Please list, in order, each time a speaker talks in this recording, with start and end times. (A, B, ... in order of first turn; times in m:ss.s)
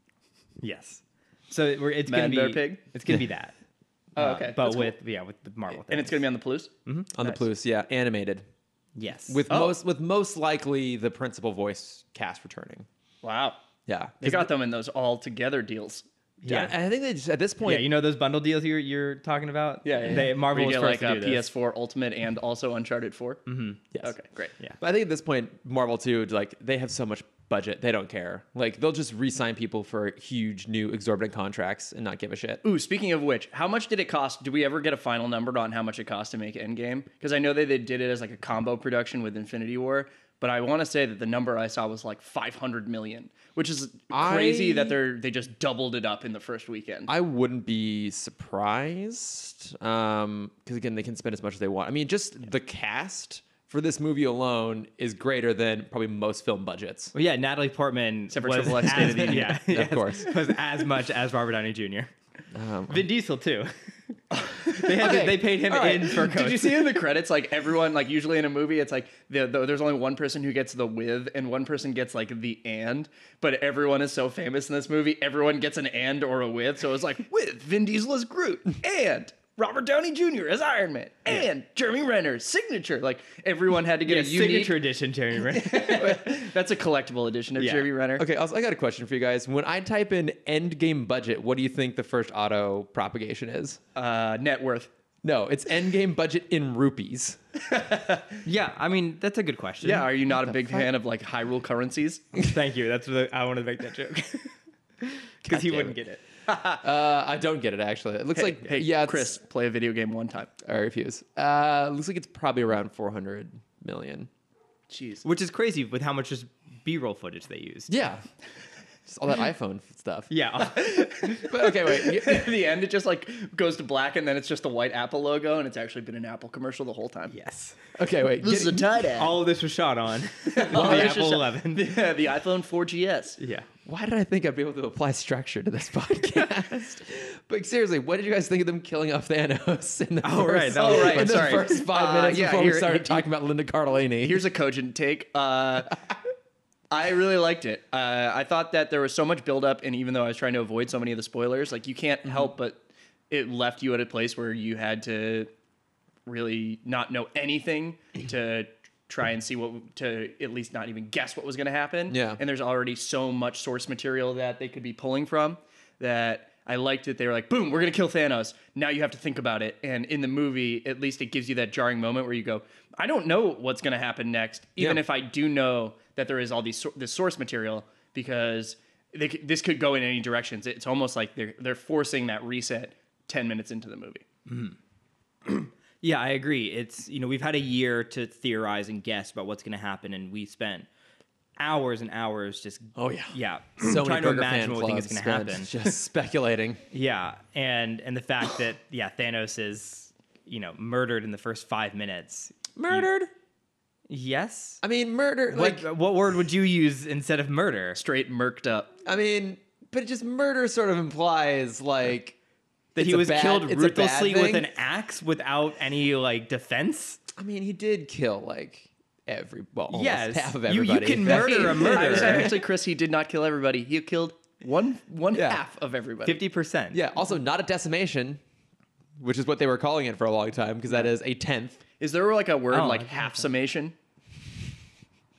0:00.6-0:03.6 A
0:02.1-0:02.8 B
0:04.2-0:05.0 B
0:04.2-0:04.5 C
0:04.2-0:06.2 A
0:05.8-0:07.4 B
0:07.1-0:08.4 C
0:09.0-0:09.5 A
0:09.3-0:12.9 C
0:09.5-0:09.8 B
0:13.2-0:13.6 B
0:13.9-0:14.5 C
0:14.2-0:16.1 B
0:16.4-0:16.8 A
0:16.5-0:17.9 C
0:17.6-0:21.5 A
0:19.8-0:23.5 B
0:23.5-0:23.8 A
0:24.0-0:24.5 B
0:24.8-0:32.6 C
0:32.6-0:47.1 B
0:44.1-0:45.0 C
0:47.1-0:57.1 C
0:57.1-1:02.1 A
0:58.3-0:59.6 B
0:58.9-1:00.3 C
1:02.5-1:03.0 C
1:02.9-1:03.7 A
1:04.3-1:24.8 B
1:04.7-1:06.9 A
1:04.9-1:06.1 C
1:24.0-1:26.2 A
1:25.4-1:28.3 B
1:27.6-1:27.9 A
1:28.2-1:33.8 C
1:34.0-1:34.9 B
1:35.2-1:37.4 C
1:37.7-1:38.4 B
1:38.4-1:40.1 A
1:39.8-1:42.4 B
1:40.3-1:40.9 C
1:42.4-1:46.2 A
1:45.4-1:46.0 C
1:46.5-1:46.8 B
1:46.8-1:49.4 C
1:48.4-1:50.5 B
1:50.6-1:54.3 C
1:54.9-1:55.2 B
1:55.2-1:58.0 A
1:57.9-1:58.2 C
1:59.1-2:00.3 C
2:00.3-2:01.0 A
2:00.7-2:07.3 B
2:01.4-2:02.5 C
2:07.3-2:07.8 A
2:08.0-2:09.0 C
2:08.4-2:09.4 B
2:09.2-2:11.9 A
2:10.5-2:13.4 B
2:13.4-2:13.7 A
2:13.9-2:24.4 C
2:20.2-2:21.6 A
2:20.7-2:23.3 B
2:24.2-2:26.0 B
2:26.9-2:35.5 B
2:36.3-3:04.2 B
2:42.1-2:42.4 C
3:04.5-3:04.8 A
3:05.5-3:10.9 A
3:11.6-3:15.7 A
3:13.0-3:16.8 C
3:16.9-3:23.1 A
3:22.8-3:23.3 C
3:24.1-3:24.8 A
3:24.8-3:25.9 C
3:25.5-3:28.0 A
3:28.0-3:28.9 B
3:29.0-3:32.4 C
3:33.0-3:34.7 C
3:33.0-3:37.2 A
3:37.4-3:42.6 C
3:39.9-3:42.6 A
3:41.2-3:46.4 B
3:45.3-3:45.6 C
3:46.3-3:47.0 A
3:46.9-3:48.4 C
3:49.2-3:51.8 C
3:52.0-3:54.0 B
3:52.7-3:53.3 A